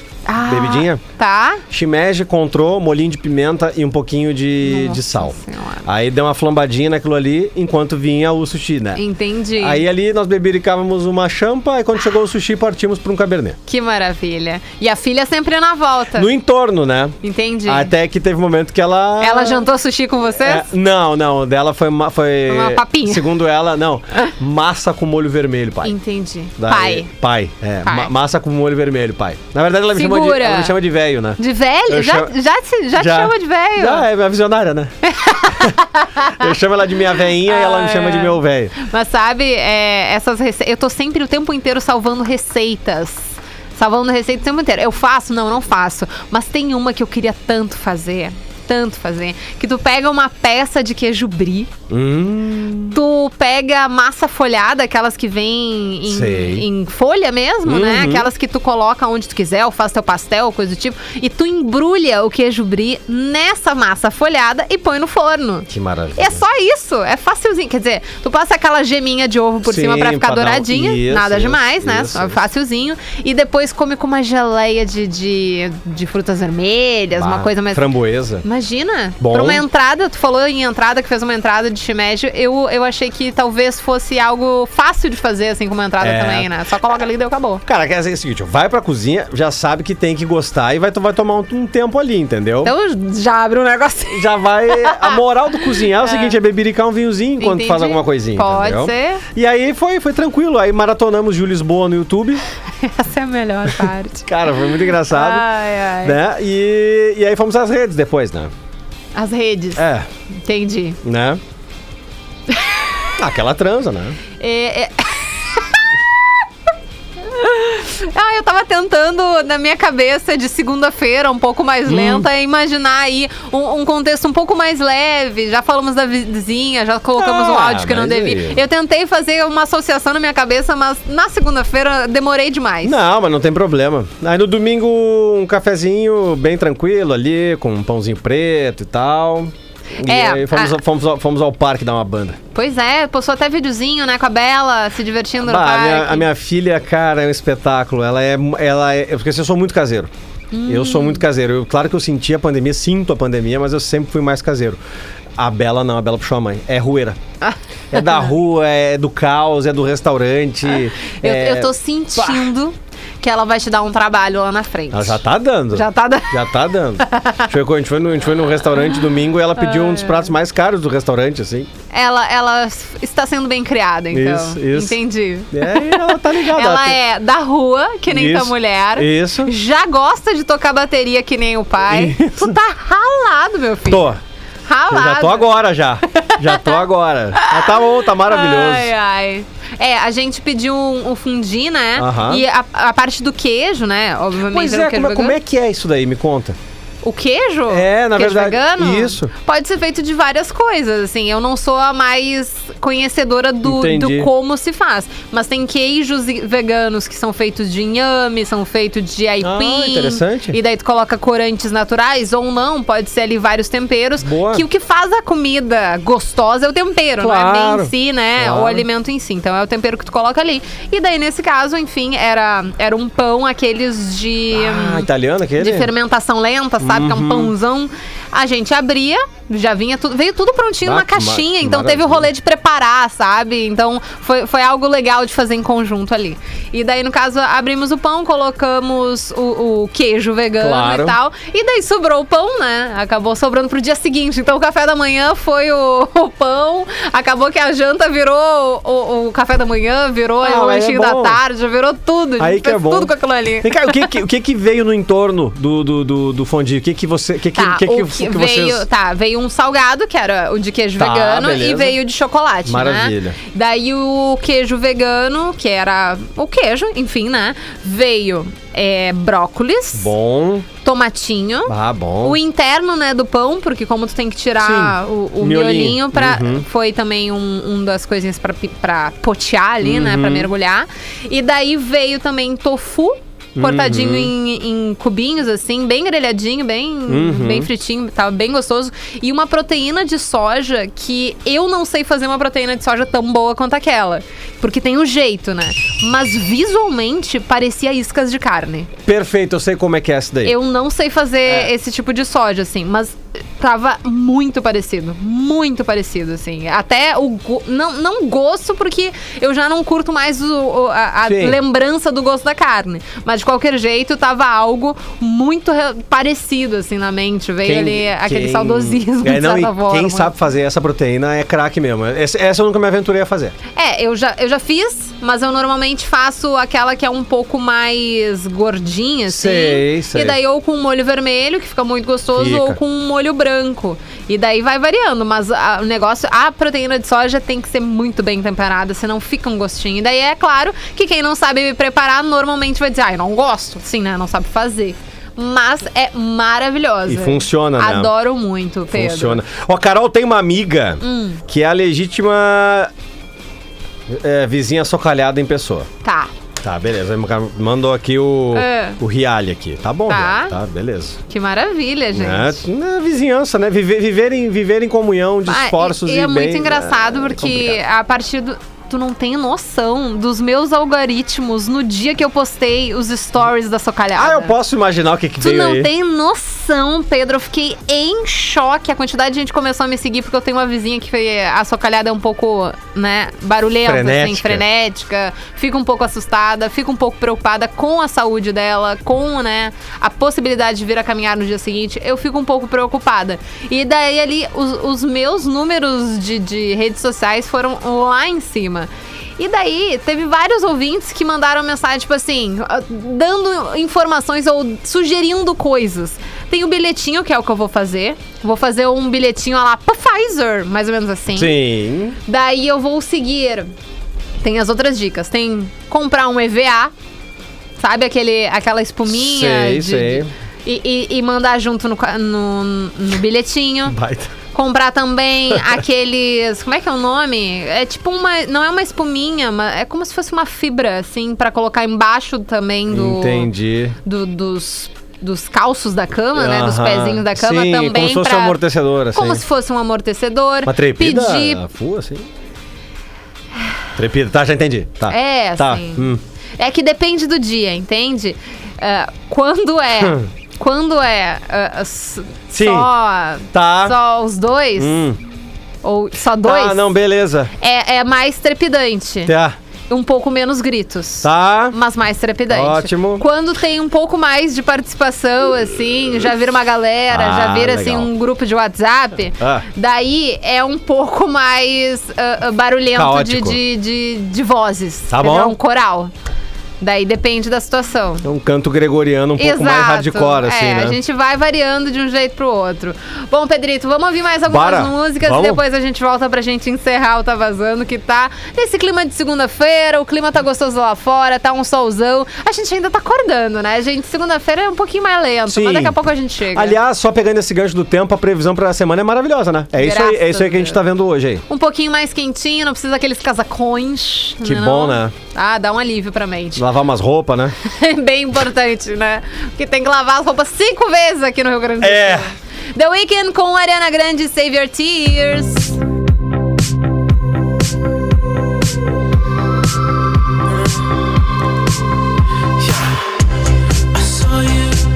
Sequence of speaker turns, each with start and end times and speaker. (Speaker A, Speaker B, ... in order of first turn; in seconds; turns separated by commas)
Speaker A: 0.3-1.6, Speaker B: 0.4-1.0, Speaker B: 1.7-9.0, Speaker A: 4.6-5.9, Speaker A: 9.0-9.8, Speaker B: 9.6-13.6, Speaker A: 13.7-16.3, Speaker B: 16.1-19.7, Speaker A: 17.2-17.9, Speaker A: 19.2-20.7, Speaker B: 20.4-26.0, Speaker A: 22.5-23.3, Speaker A: 25.8-27.1, Speaker B: 26.6-32.3, Speaker A: 27.9-28.1, Speaker A: 29.9-30.8, Speaker A: 31.4-34.1, Speaker B: 33.0-34.9, Speaker A: 35.0-36.5, Speaker B: 36.3-38.8, Speaker A: 37.5-51.7, Speaker B: 51.9-53.0, Speaker A: 52.9-77.9, Speaker B: 56.0-56.7, Speaker B: 57.6-58.3, Speaker B: 65.7-66.4, Speaker B: 69.7-72.4, Speaker B: 77.2-78.5, Speaker A: 78.4-87.6, Speaker B: 79.2-79.6, Speaker B: 86.0-86.5, Speaker B: 87.7-92.7, Speaker A: 92.6-96.4, Speaker B: 94.1-102.4, Speaker A: 97.4-99.2, Speaker A: 102.8-104.3, Speaker B: 103.8-105.5, Speaker A: 105.1-106.2, Speaker B: 106.0-108.5, Speaker A: 109.2-111.0, Speaker B: 109.8-110.1, Speaker B: 111.0-111.4, Speaker B: 113.2-114.2, Speaker A: 114.4-115.8, Speaker A: 117.3-133.0, Speaker B: 121.9-122.3, Speaker B: 127.2-128.6, Speaker B: 132.8-142.4, Speaker A: 140.0-140.8, Speaker A: 142.5-146.3, Speaker B: 145.4-150.1, Speaker A: 150.5-151.2, Speaker B: 150.7-154.8, Speaker B: 155.4-157.2, Speaker A: 157.4-158.3, Speaker B: 157.9-162.5, Speaker A: 161.1-166.4, Speaker B: 164.9-171.7, Speaker A: 167.0-167.5, Speaker A: 169.6-170.3, Speaker A: 171.9-184.1, Speaker B: 174.1-175.0, Speaker B: 175.5-177.0, Speaker B: 178.1-179.5, Speaker B: 181.9-182.6, Speaker B: 183.9-184.2, Speaker A: 184.7-185.5, Speaker B: 184.9-188.9, Speaker A: 186.1-186.8, Speaker A: 187.3-195.4, Speaker B: 192.0-192.4, Speaker B: 194.4-196.6, Speaker A: 197.0-225.1, Speaker B: 197.7-199.3, Speaker B: 203.6-204.3, Speaker B: 209.4-210.6, Speaker B: 214.2-214.7, Speaker B: 217.2-218.9, Speaker B: 224.5-225.9, Speaker A: 225.6-254.1, Speaker B: 226.8-227.5, Speaker B: 230.8-232.3, Speaker B: 240.6-241.2, Speaker B: 250.4-251.4, Speaker B: 252.4-258.9, Speaker A: 257.6-270.1, Speaker B: 261.0-262.0, Speaker B: 262.7-263.4, Speaker B: 270.0-270.7, Speaker A: 270.8-298.9, Speaker B: 271.7-272.4, Speaker B: 274.6-276.6, Speaker B: 279.8-280.5, Speaker B: 283.6-284.3, Speaker B: 287.1-287.7, Speaker B: 299.1-300.6, Speaker A: 300.4-320.3, Speaker B: 301.4-301.7, Speaker B: 311.2-311.6, Speaker B: 317.6-323.6, Speaker A: 323.8-349.4, Speaker B: 329.3-330.4, Speaker B: 332.4-332.8, Speaker B: 347.1-348.1, Speaker B: 348.9-352.9, Speaker A: 351.0-351.4, Speaker B: 354.1-355.9, Speaker A: 356.0-356.3, Speaker B: 356.6-361.2, Speaker A: 358.5-359.0, Speaker A: 360.1-360.6, Speaker A: 361.3-362.6, Speaker B: 362.1-367.8, Speaker A: 365.5-374.5, Speaker B: 374.2-375.9, Speaker A: 375.4-411.6, Speaker B: 383.8-384.6, Speaker B: 411.3-412.2, Speaker A: 412.3-413.7, Speaker A: 414.4-416.9, Speaker A: 417.8-424.0, Speaker B: 419.1-420.3, Speaker B: 423.9-424.3, Speaker A: 424.5-433.5, Speaker B: 432.9-434.0, Speaker A: 434.1-438.6, Speaker B: 436.4-439.4, Speaker A: 439.1-441.6, Speaker B: 440.6-442.3, Speaker B: 444.0-446.2, Speaker A: 445.1-446.1, Speaker A: 446.6-455.0, Speaker B: 450.0-450.3, Speaker B: 452.5-452.9, Speaker B: 453.5-454.0, Speaker B: 454.8-455.2, Speaker A: 455.8-456.9, Speaker B: 456.4-457.5, Speaker A: 457.6-459.3, Speaker B: 459.2-459.6, Speaker A: 459.9-476.1, Speaker B: 461.2-461.8, Speaker B: 462.5-463.2, Speaker B: 467.1-468.1, Speaker B: 469.4-469.6, Speaker B: 472.9-473.6, Speaker B: 475.1-475.6, Speaker A: 476.8-478.3, Speaker B: 478.2-481.0, Speaker A: 479.4-496.8, Speaker B: 484.5-485.6, Speaker B: 495.5-496.0, Speaker B: 496.5-501.4, Speaker A: 499.8-500.8, Speaker A: 501.5-506.6, Speaker B: 504.4-505.1, Speaker B: 506.6-507.6, Speaker A: 507.6-515.8, Speaker B: 511.8-512.3, Speaker A: 524.1-524.6